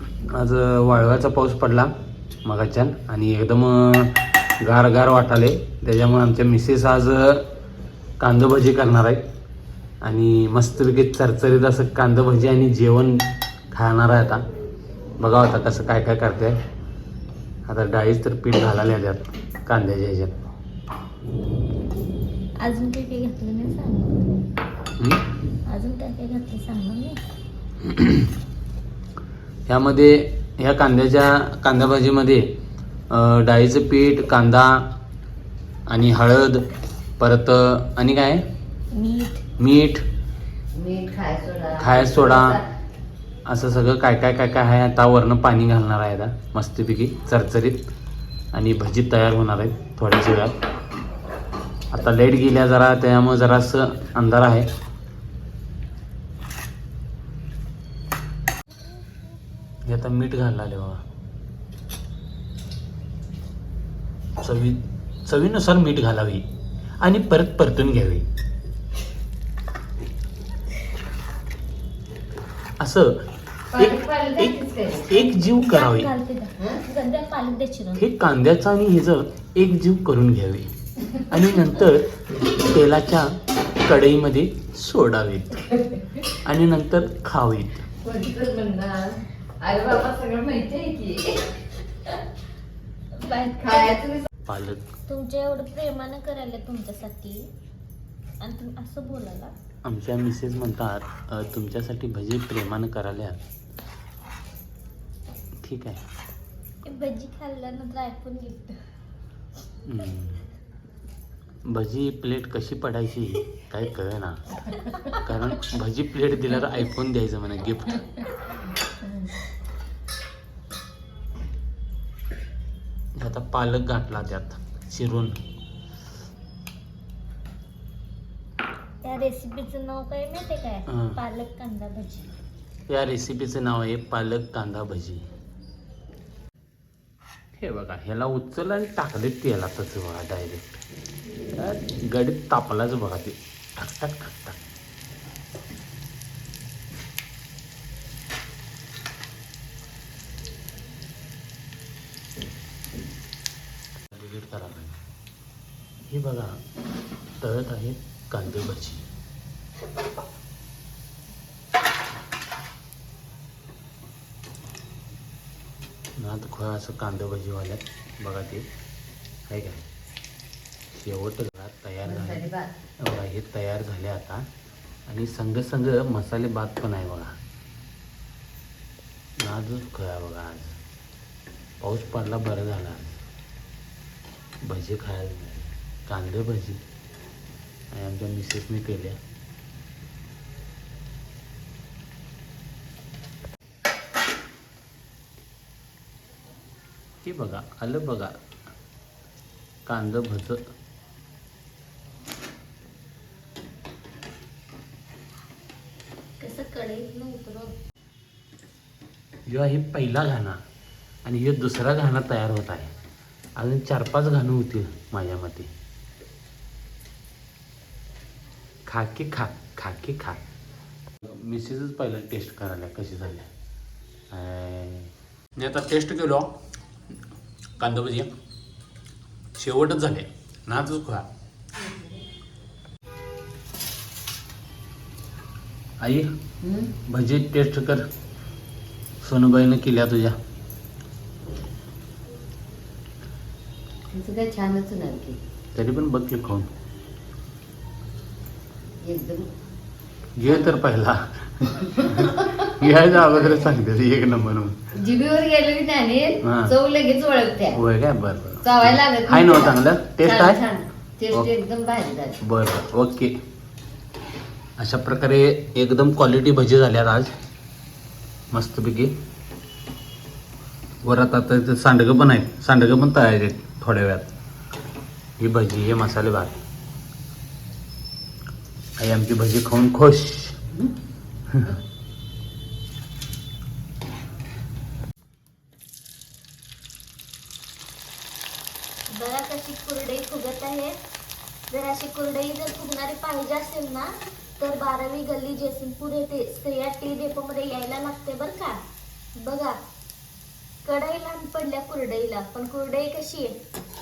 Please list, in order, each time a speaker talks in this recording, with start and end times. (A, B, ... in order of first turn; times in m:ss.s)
0:00.2-0:01.9 A
0:02.4-0:07.5 A
0:08.2-0:09.2 A
0:10.0-0:14.4 A
0:15.2-0:16.6 A
0:17.6-0:20.4 A
0:22.6-0:24.4 B
0:25.0-0:25.2 A
0:25.6-0:27.2 B
0:27.8-0:28.3 A
0:29.7-0:32.5 A
0:33.1-0:34.9 A
0:35.9-0:36.7 A
0:37.2-0:38.4 A
0:38.9-0:39.4 B
0:39.6-0:40.0 A
0:40.7-0:42.7 C
0:41.8-0:42.6 A
0:43.4-0:47.8 A
0:48.5-0:50.6 A
0:51.9-0:54.7 A
0:59.8-1:01.0 A
1:04.4-1:06.4 A
1:07.0-1:08.2 A
1:12.8-1:13.2 A
1:13.7-1:15.4 C
1:13.7-1:14.5 A
1:15.1-1:16.1 A
1:15.5-1:18.0 B
1:17.9-1:25.7 A
1:26.2-1:27.8 A
1:28.0-1:31.6 C
1:33.2-1:34.0 B
1:33.7-1:34.3 C
1:34.4-1:34.9 A
1:35.1-1:37.5 B
1:38.4-1:39.5 B
1:39.8-1:43.4 A
1:45.6-1:46.0 A
1:46.8-1:48.8 B
1:49.8-1:50.4 A
1:51.6-1:54.4 A
1:55.0-1:58.0 A
2:03.2-2:05.4 A
2:09.0-2:12.3 B
2:10.9-2:11.2 A
2:12.9-2:15.2 A
2:17.6-2:20.8 A
2:21.5-2:24.6 A
2:34.1-2:35.0 A
2:36.1-2:36.6 A
2:37.4-2:39.1 A
2:46.2-2:48.6 A
2:49.5-2:49.8 A
2:50.9-2:52.5 A
2:52.0-2:52.7 C
2:53.0-2:54.4 A
2:55.1-2:57.4 A
2:59.4-3:00.8 A
3:01.8-3:03.2 A
3:04.6-3:06.8 A
3:07.9-3:09.2 A
3:17.2-3:18.4 A
3:19.8-3:20.6 A
3:26.4-3:27.7 B
3:29.5-3:30.6 A
3:31.2-3:32.9 A
3:33.6-3:35.7 A
3:38.8-3:40.4 A
3:41.2-3:43.5 A
3:44.3-3:46.5 A
3:47.8-3:48.3 A
3:49.6-3:51.3 A
3:56.0-3:56.3 A
3:56.6-3:56.9 C
3:56.9-3:58.1 A
3:59.2-4:00.4 A
4:04.1-4:05.4 C
4:05.7-4:06.7 A
4:09.0-4:09.5 C
4:10.4-4:14.8 A
4:14.9-4:17.8 C
4:16.4-4:16.7 A
4:17.7-4:20.6 A
4:18.6-4:22.4 C
4:22.4-4:23.3 A
4:24.8-4:27.3 A
4:28.5-4:29.1 A
4:31.0-4:34.3 A
4:35.4-4:36.6 A
4:39.0-4:40.6 A
4:49.1-4:50.9 B
4:51.7-4:58.8 B
4:59.4-4:59.7 B
5:00.8-5:03.6 B